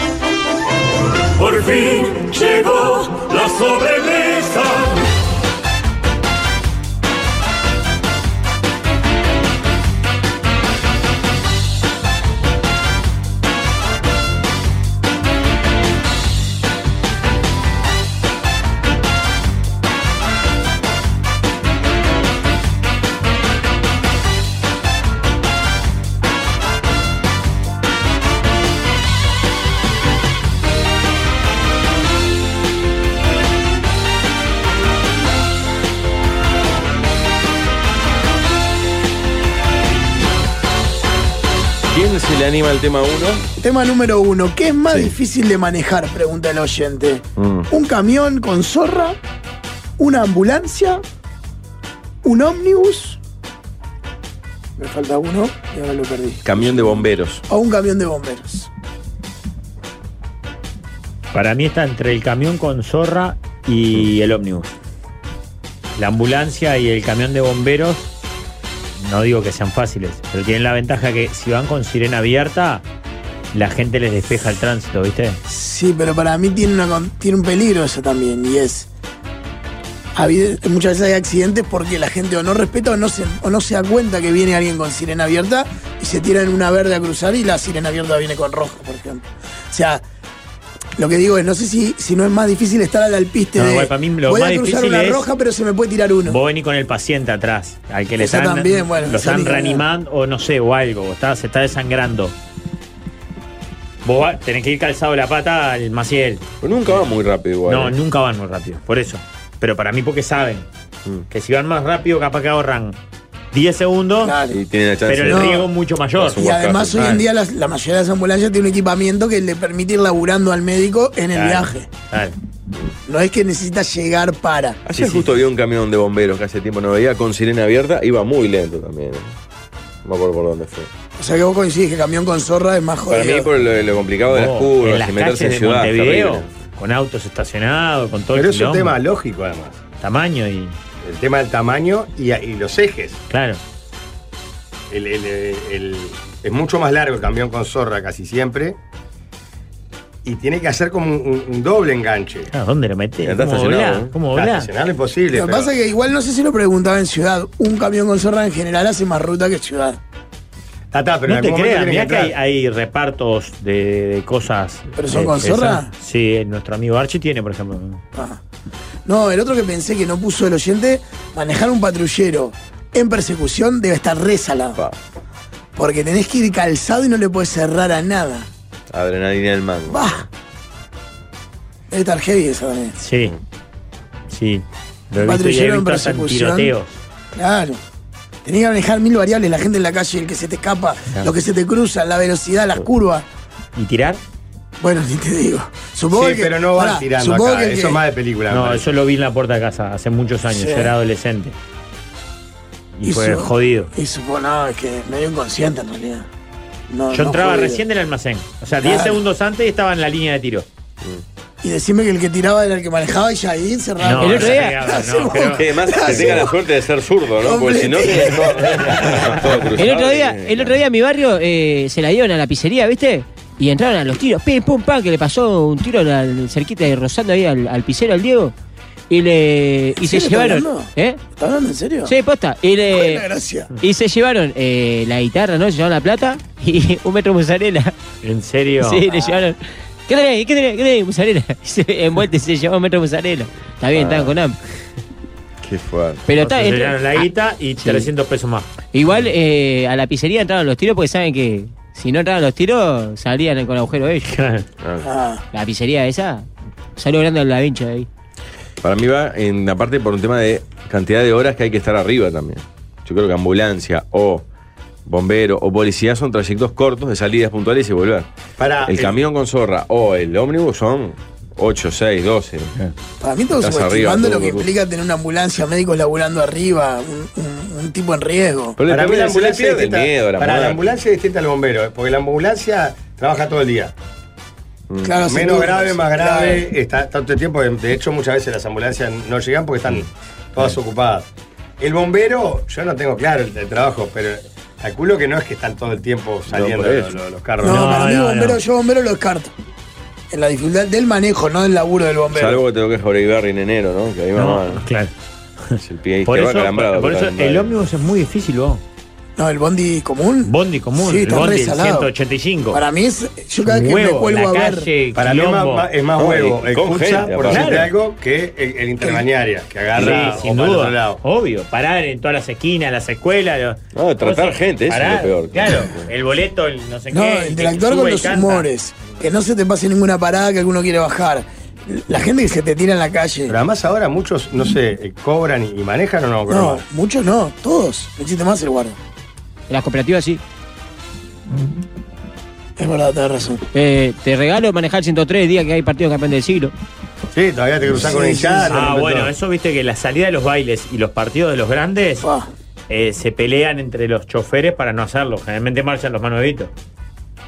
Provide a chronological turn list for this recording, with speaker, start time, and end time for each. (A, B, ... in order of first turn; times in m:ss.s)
0:01.4-0:05.0 A
0:41.9-0:43.4 B
0:43.6-0:49.2 C
0:47.4-0:47.7 B
0:50.0-0:51.0 C
0:52.2-0:53.2 C
0:54.8-0:58.7 C
0:56.4-0:57.4 B
1:01.3-1:04.8 D
1:06.0-1:08.1 D
1:09.0-1:12.8 D
1:13.5-1:15.4 D
1:15.5-1:18.9 C
1:20.2-1:30.0 C
1:31.0-1:36.4 C
1:33.6-1:35.3 D
1:36.3-1:42.4 D
1:38.2-1:39.8 C
1:44.0-1:47.0 D
1:46.6-1:48.0 B
1:47.7-1:50.7 D
1:51.3-1:53.0 D
1:53.5-1:54.4 D
1:54.2-1:54.6 C
1:54.5-1:55.5 B
1:55.1-1:56.4 D
1:55.2-1:55.7 C
1:56.2-1:57.1 B
1:56.3-2:01.9 C
1:57.0-1:57.2 D
2:01.3-2:02.4 D
2:03.1-2:04.8 C
2:04.9-2:09.4 B
2:10.0-2:10.9 B
2:11.2-2:13.5 C
2:13.1-2:16.5 B
2:14.3-2:18.9 D
2:18.4-2:19.8 E
2:20.0-2:20.8 D
2:21.0-2:23.2 E
2:23.3-2:23.6 D
2:24.9-2:28.8 E
2:30.2-2:32.5 E
2:32.5-2:34.7 D
2:33.2-2:34.1 B
2:34.3-2:35.7 E
2:35.3-2:40.0 C
2:40.9-2:42.3 E
2:41.3-2:48.0 D
2:45.0-2:45.9 C
2:48.2-2:48.4 C
2:49.1-2:54.8 C
2:55.8-2:58.5 C
2:58.9-3:00.2 B
2:59.9-3:00.2 C
3:01.9-3:03.0 C
3:03.0-3:03.4 D
3:04.3-3:07.0 D
3:05.2-3:06.7 C
3:07.3-3:07.8 C
3:08.4-3:13.3 C
3:13.8-3:14.2 D
3:14.8-3:18.0 C
3:16.1-3:18.9 E
3:18.5-3:21.6 D
3:20.5-3:20.9 C
3:23.0-3:23.9 D
3:23.0-3:26.3 C
3:26.9-3:27.8 C
3:27.1-3:30.7 D
3:28.8-3:29.2 C
3:31.6-3:36.6 C
3:34.0-3:35.6 D
3:34.2-3:35.1 F
3:35.6-3:40.8 B
3:37.4-3:39.4 C
3:39.8-3:48.5 F
3:49.1-3:51.2 F
3:50.0-3:52.2 C
3:52.0-3:53.2 F
3:52.9-3:53.7 C
3:53.8-3:57.9 F
3:58.2-3:59.0 D
3:58.8-4:04.6 F
3:59.1-3:59.4 C
4:03.9-4:04.4 B
4:05.6-4:06.2 B
4:06.3-4:07.3 F
4:06.4-4:08.7 D
4:07.8-4:08.1 F
4:08.9-4:14.3 F
4:14.3-4:14.6 D
4:14.8-4:15.1 B
4:15.0-4:15.4 C
4:15.5-4:18.1 F
4:18.8-4:24.4 B
4:25.1-4:28.3 B
4:28.6-4:29.2 E
4:28.8-4:32.8 B
4:33.2-4:38.8 C
4:33.6-4:34.7 B
4:38.8-4:40.8 B
4:38.9-4:43.9 E
4:44.9-4:45.2 B
4:45.0-4:46.7 C
4:45.3-4:51.3 E
4:51.8-4:58.0 E
4:56.5-4:57.2 B
4:57.6-4:59.5 C
4:57.6-4:58.6 D
5:00.3-5:02.6 C
5:02.3-5:04.8 B
5:04.4-5:05.1 D
5:05.7-5:08.8 D
5:05.8-5:07.7 B
5:09.4-5:12.1 C
5:10.4-5:12.8 D
5:12.7-5:14.9 C
5:13.6-5:15.9 D
5:15.2-5:21.2 E
5:16.2-5:17.9 B
5:17.5-5:17.9 D
5:19.0-5:19.3 C
5:20.0-5:28.7 D
5:20.0-5:20.2 B
5:23.9-5:26.1 B
5:27.1-5:33.6 C
5:33.5-5:36.8 E
5:36.5-5:39.0 C
5:39.7-5:40.4 F
5:42.8-5:43.6 C
5:43.7-5:46.7 F
5:47.3-5:49.3 E
5:47.9-5:48.8 C
5:48.7-5:52.3 D
5:52.2-5:52.5 C
5:52.9-5:56.7 D